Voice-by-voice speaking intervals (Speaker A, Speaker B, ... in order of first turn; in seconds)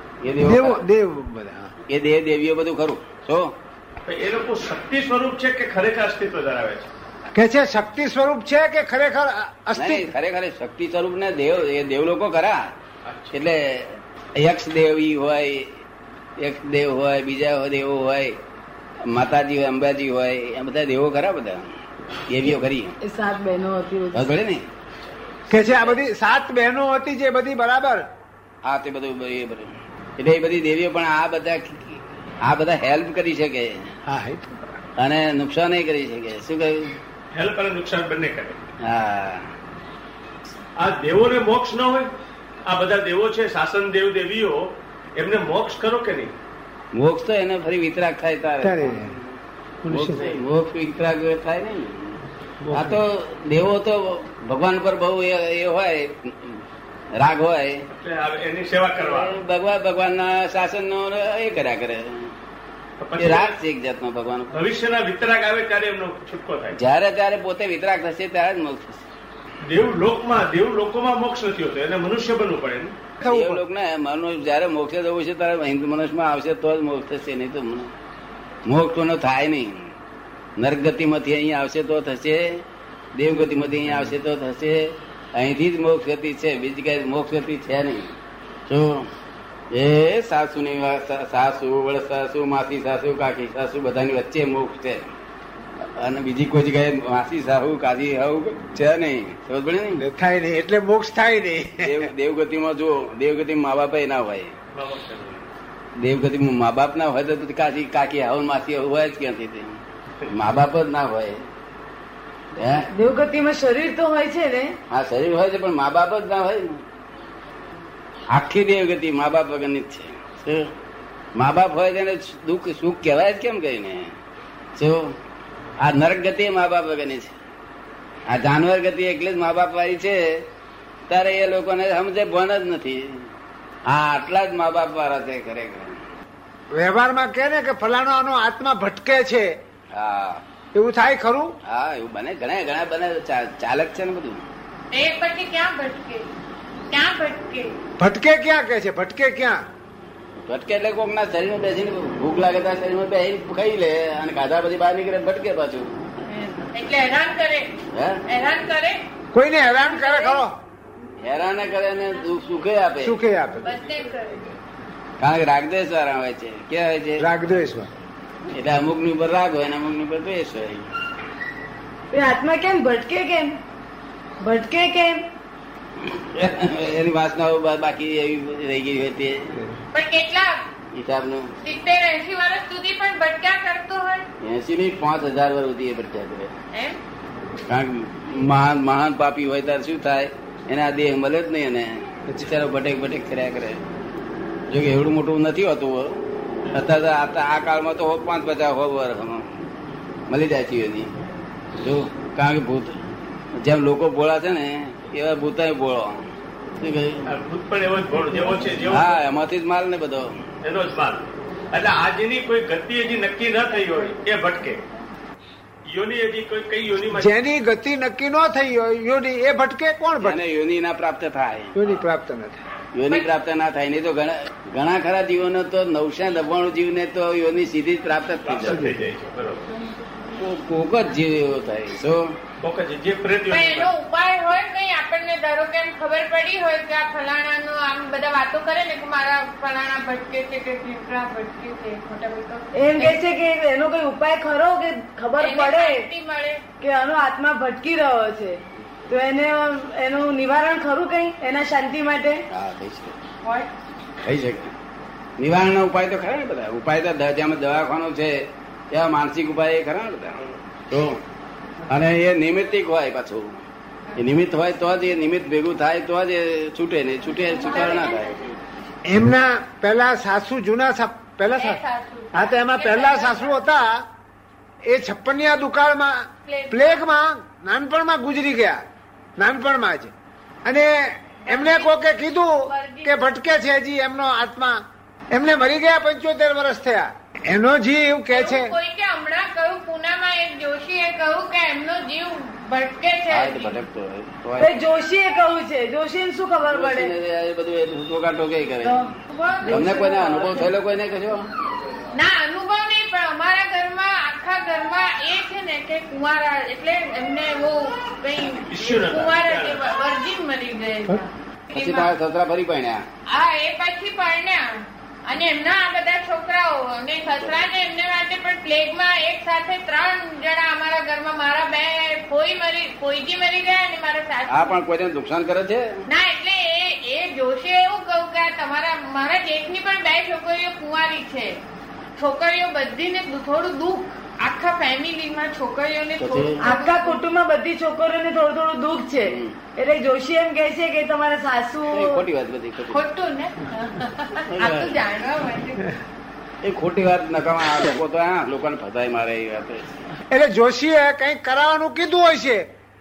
Speaker A: 0.2-0.8, 1.9-3.5, 9.8-12.7, 13.3-15.7, 16.4-18.4, 19.0-21.7, 22.3-22.9, 24.1-24.7, 28.6-33.9, 35.0-36.9, 38.8-39.5, 46.9-49.4, 49.9-52.2, 52.7-56.6, 57.1-57.8, 59.0-62.3, 63.2-64.6, 66.8-69.0, 73.2-77.9, 78.6-79.9, 80.6-82.6, 83.1-88.1, 88.7-89.1, 89.7-95.0, 96.0-100.0, 101.8-104.5, 106.0-111.4, 112.6-112.9, 114.9-116.8, 118.3-120.7, 121.3-124.1, 124.8-125.1, 125.8-127.3, 128.3-130.4, 131.1-133.2, 133.8-135.9, 139.9-140.4, 141.6-144.4, 150.4-155.9, 157.9-158.2, 161.2-163.1, 165.2-167.3, 168.5-170.8, 176.0-179.6, 180.9-181.5, 184.4-186.5, 187.7-193.8, 194.7-196.2, 196.7-199.5, 200.3-201.1, 201.8-202.9, 203.6-206.3, 206.8-207.2, 208.9-210.4, 220.2-221.8, 222.9-228.9, 230.3-232.3, 252.5-253.2, 254.2-254.7, 255.4-261.2, 261.9-263.6, 264.1-268.4, 293.3-294.7, 296.7-301.5, 311.7-313.1, 324.5-326.0, 336.2-336.6, 339.2-339.5, 341.9-343.0, 344.5-345.0, 346.6-349.9
Speaker B: 0.4-1.7, 7.3-10.1, 25.5-28.0, 34.0-34.7, 48.6-49.1, 49.8-50.2, 52.6-53.0, 73.2-73.6, 100.0-102.1, 136.7-139.5, 140.7-141.5, 148.0-149.6, 159.3-160.5, 163.0-163.8, 167.2-167.9, 217.1-220.4, 221.7-222.6, 228.7-228.9, 269.1-271.8, 272.3-274.0, 274.8-278.8, 279.4-280.1, 280.6-284.8, 285.3-288.7, 350.3-352.6
Speaker C: 4.0-6.9, 13.0-13.4, 37.3-38.6, 40.8-42.1, 42.6-46.3, 50.1-50.4, 57.9-59.4, 63.0-63.6, 64.5-66.8, 69.6-73.0, 104.7-105.5, 207.3-209.2, 210.6-214.8, 215.9-217.3, 228.4-229.7, 232.6-233.9, 308.6-309.9
Speaker D: 23.0-24.4, 112.9-114.8, 172.1-173.6, 174.4-175.2, 242.8-246.1, 246.8-252.4, 294.6-297.1, 298.8-299.1, 299.6-300.7, 336.6-342.2
Speaker E: 144.9-146.3, 146.9-147.7, 156.2-159.0, 159.8-160.4, 163.6-164.4, 179.9-180.6, 181.6-184.2, 186.7-187.0, 233.5-243.2, 245.4-246.6, 253.4-253.7, 267.4-268.6, 271.5-273.6, 276.4-277.1, 281.4-283.3, 288.3-293.8, 299.3-300.3, 302.1-312.1, 313.3-324.8, 326.1-331.6, 332.2-337.2, 342.9-346.0